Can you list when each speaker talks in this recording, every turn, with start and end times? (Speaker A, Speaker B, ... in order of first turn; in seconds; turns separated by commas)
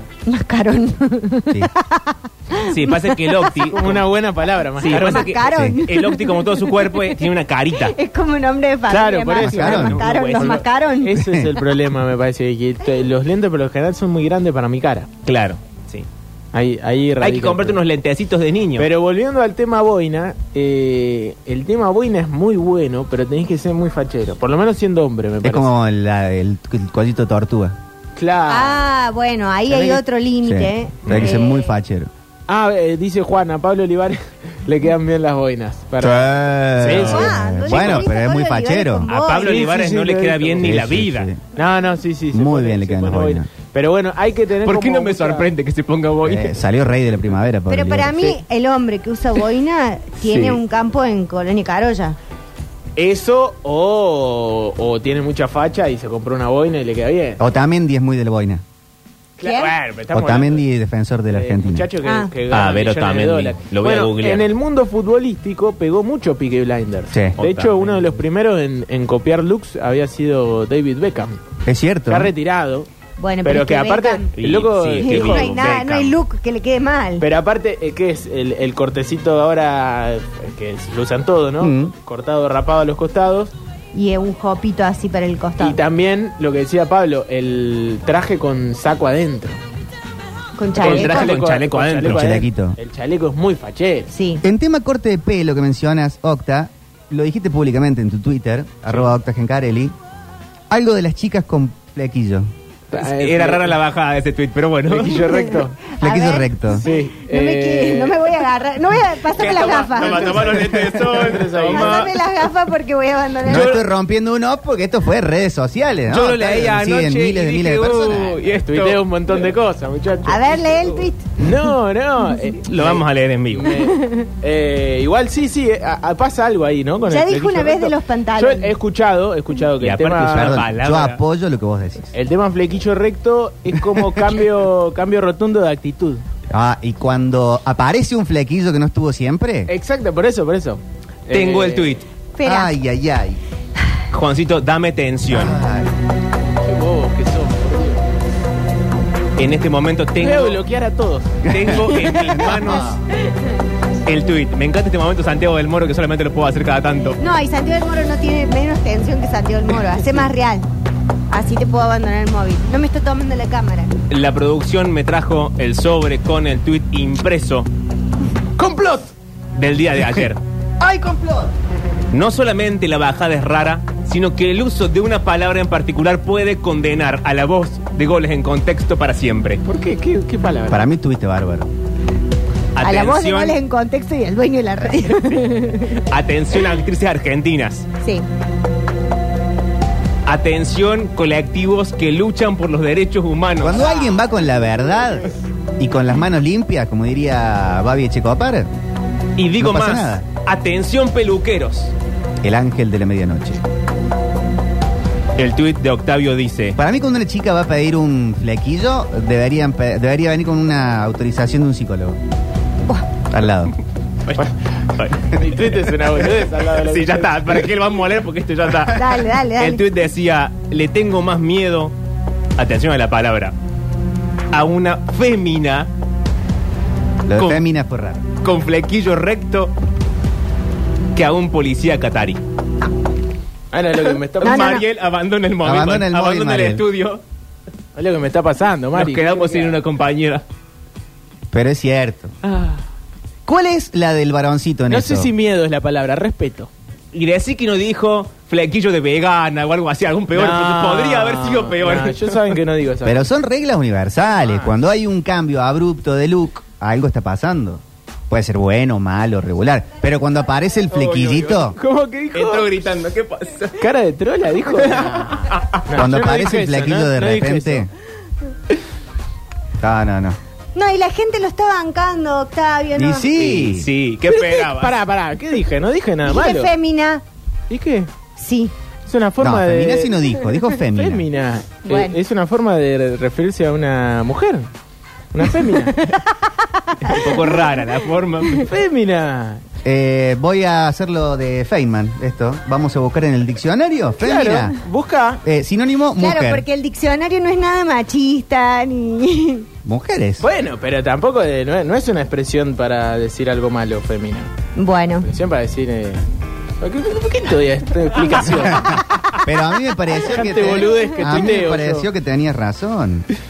Speaker A: 0.2-3.7, Speaker B: 2.7-4.1, Speaker C: 3.7-5.4, Speaker B: 4.8-7.9, Speaker A: 4.9-11.2, Speaker D: 5.5-5.8, Speaker C: 8.9-15.1, Speaker D: 9.4-10.0, Speaker B: 9.7-10.6, Speaker D: 11.2-11.5, Speaker B: 15.2-16.1, Speaker C: 16.5-17.8, Speaker B: 17.2-18.9, Speaker C: 18.8-25.7, Speaker D: 25.4-27.8, Speaker C: 28.1-28.8, Speaker A: 28.5-31.7, Speaker C: 29.7-30.0, Speaker D: 30.4-32.1, Speaker C: 32.5-37.3, Speaker D: 36.0-39.1, Speaker B: 36.8-37.1, Speaker A: 37.0-39.6, Speaker B: 37.7-38.0, Speaker B: 39.1-41.3, Speaker C: 39.4-40.8, Speaker D: 40.6-41.4, Speaker C: 41.5-45.5, Speaker D: 42.3-43.5, Speaker B: 44.6-46.5, Speaker D: 46.2-48.3, Speaker A: 47.7-52.2, Speaker C: 53.0-57.4, Speaker D: 57.4-58.6, Speaker C: 59.4-60.6, Speaker A: 59.4-59.7, Speaker D: 60.1-61.9, Speaker C: 61.3-71.4, Speaker A: 62.0-62.3, Speaker B: 62.5-64.5, Speaker D: 67.1-67.3, Speaker B: 67.4-68.2, Speaker D: 71.7-72.3, Speaker C: 72.1-72.9, Speaker A: 73.2-74.3, Speaker C: 73.4-75.5, Speaker B: 74.4-76.2, Speaker A: 75.0-77.2, Speaker C: 77.2-83.5, Speaker D: 81.6-81.9, Speaker A: 83.9-85.8, Speaker C: 85.6-89.6, Speaker A: 90.6-91.4, Speaker C: 90.7-94.1, Speaker B: 90.8-92.4, Speaker D: 92.0-92.8, Speaker A: 94.1-94.4, Speaker D: 94.4-99.9, Speaker D: 100.7-102.5, Speaker C: 102.9-103.8, Speaker B: 102.9-105.5, Speaker C: 104.9-105.8, Speaker A: 105.3-110.5, Speaker D: 106.0-106.8, Speaker C: 106.8-108.3, Speaker B: 109.3-112.1, Speaker C: 109.5-112.1, Speaker A: 111.7-113.8, Speaker D: 113.4-118.4, Speaker B: 113.5-113.8, Speaker B: 116.1-119.1, Speaker C: 118.6-130.6, Speaker A: 120.2-121.4, Speaker B: 122.7-123.8, Speaker A: 123.8-124.3, Speaker A: 127.1-128.7, Speaker B: 129.8-131.2, Speaker D: 130.3-132.1, Speaker C: 132.1-136.2, Speaker D: 136.5-139.7, Speaker C: 139.7-142.0, Speaker B: 141.3-142.1, Speaker A: 142.3-142.8, Speaker D: 142.4-143.4, Speaker B: 144.1-145.6, Speaker D: 145.3-145.9, Speaker C: 146.4-148.0, Speaker B: 149.4-150.6, Speaker C: 150.2-151.4, Speaker D: 151.4-153.0, Speaker B: 151.5-152.9, Speaker B: 154.1-157.2, Speaker A: 157.2-160.7, Speaker A: 161.3-163.9, Speaker B: 164.1-167.7, Speaker C: 168.6-169.1, Speaker B: 169.5-170.4, Speaker D: 170.8-171.5, Speaker B: 172.1-179.6, Speaker C: 179.7-180.8, Speaker D: 180.7-181.7, Speaker B: 182.7-183.6, Speaker A: 182.8-186.0, Speaker B: 186.1-187.9, Speaker B: 190.2-193.8, Speaker D: 193.6-198.7, Speaker B: 199.4-201.9, Speaker D: 199.6-200.2, Speaker D: 202.4-203.6, Speaker B: 205.3-206.8, Speaker D: 206.8-212.2, Speaker D: 213.3-213.7, Speaker B: 214.2-221.9, Speaker C: 215.3-217.7, Speaker A: 218.9-219.8, Speaker B: 222.6-223.5, Speaker B: 224.5-225.9, Speaker D: 227.3-228.2, Speaker B: 227.3-227.6, Speaker B: 228.4-229.7, Speaker B: 231.1-232.4, Speaker C: 233.7-234.8, Speaker B: 234.1-237.2, Speaker A: 234.4-234.8, Speaker D: 235.6-236.8, Speaker C: 237.9-239.8, Speaker B: 238.9-240.4, Speaker D: 241.5-242.3, Speaker D: 243.4-245.3, Speaker C: 244.9-246.7, Speaker B: 247.1-252.4, Speaker C: 250.3-253.3, Speaker D: 253.0-261.8, Speaker B: 260.9-261.7, Speaker C: 261.8-262.7, Speaker B: 262.3-263.8, Speaker C: 263.8-267.9, Speaker B: 264.7-265.8, Speaker D: 265.9-267.9, Speaker D: 269.8-270.4, Speaker A: 270.7-273.4, Speaker D: 272.9-273.9, Speaker B: 273.4-275.0, Speaker C: 274.3-276.7, Speaker A: 276.2-277.2, Speaker C: 277.7-278.1, Speaker A: 278.4-278.7, Speaker C: 279.1-280.3, Speaker D: 279.4-281.2, Speaker C: 280.9-284.7, Speaker A: 281.8-282.1, Speaker C: 285.3-286.1, Speaker A: 286.0-287.4, Speaker B: 287.0-288.6, Speaker C: 288.6-289.6, Speaker D: 289.8-294.8, Speaker C: 294.2-295.4, Speaker D: 295.4-296.6, Speaker A: 296.2-299.7, Speaker D: 299.8-300.4, Speaker C: 300.4-304.5, Speaker A: 304.8-305.3, Speaker C: 305.2-306.2, Speaker C: 306.8-309.1, Speaker D: 308.7-313.3, Speaker C: 310.2-312.1